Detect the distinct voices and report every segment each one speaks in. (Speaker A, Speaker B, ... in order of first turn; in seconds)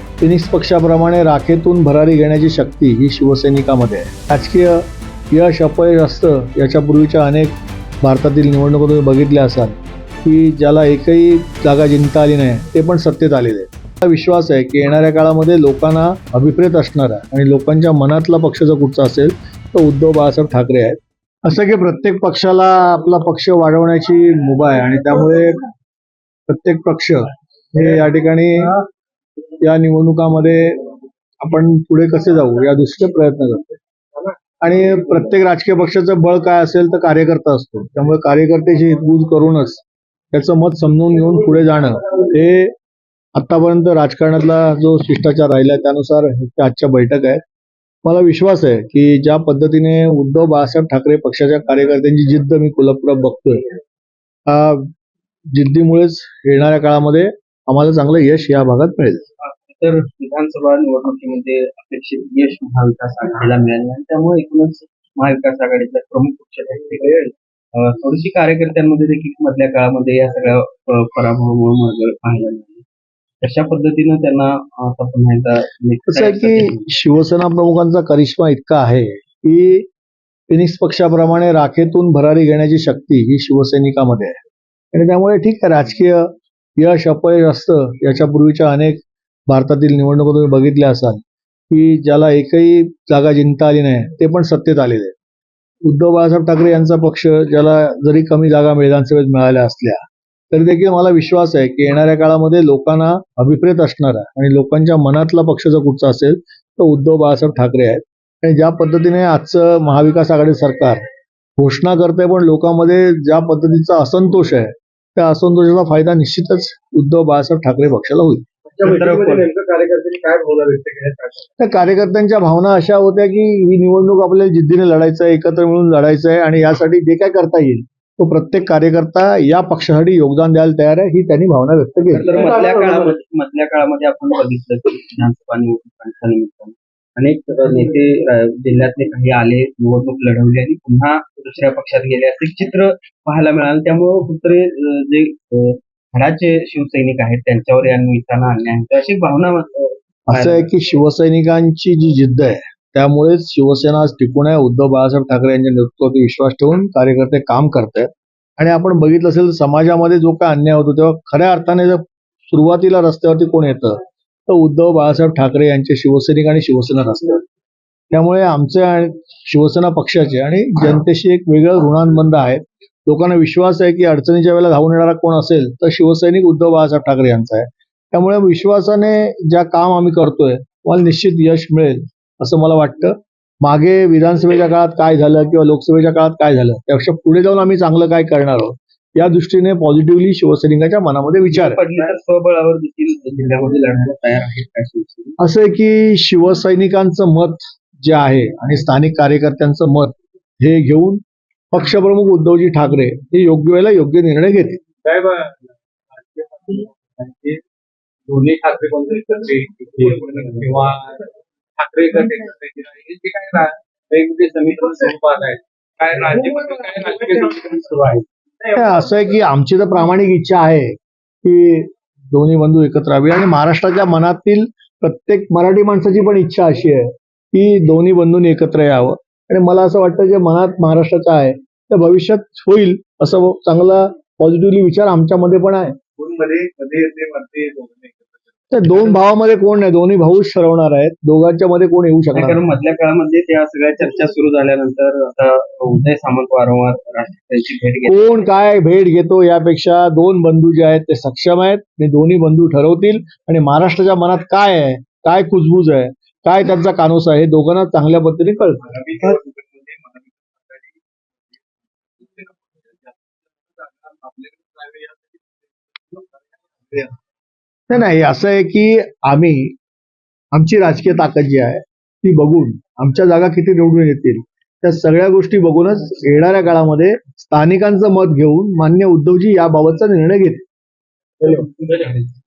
Speaker A: 0.2-25.6, 26.5-28.8, 29.6-30.9, 31.4-33.8, 34.6-42.7, 43.4-47.4, 48.0-53.7, 54.5-54.9, 55.5-59.2, 76.1-79.9, 80.5-84.4, 84.9-95.2, 95.8-111.0, 111.6-118.4, 121.6-132.4, 150.3-167.4, 168.1-191.8, 195.4-204.8, 218.8-236.0, 238.7-242.6, 248.1-258.8, 267.9-269.8, 270.5-280.6
Speaker B: 59.4-72.8, 73.4-76.9, 118.8-119.5, 132.1-150.7, 191.5-195.3, 242.3-248.4
Speaker C: 118.7-121.5, 132.3-133.1, 205.0-207.6, 208.3-218.7, 236.2-238.7, 258.9-261.0, 262.2-267.1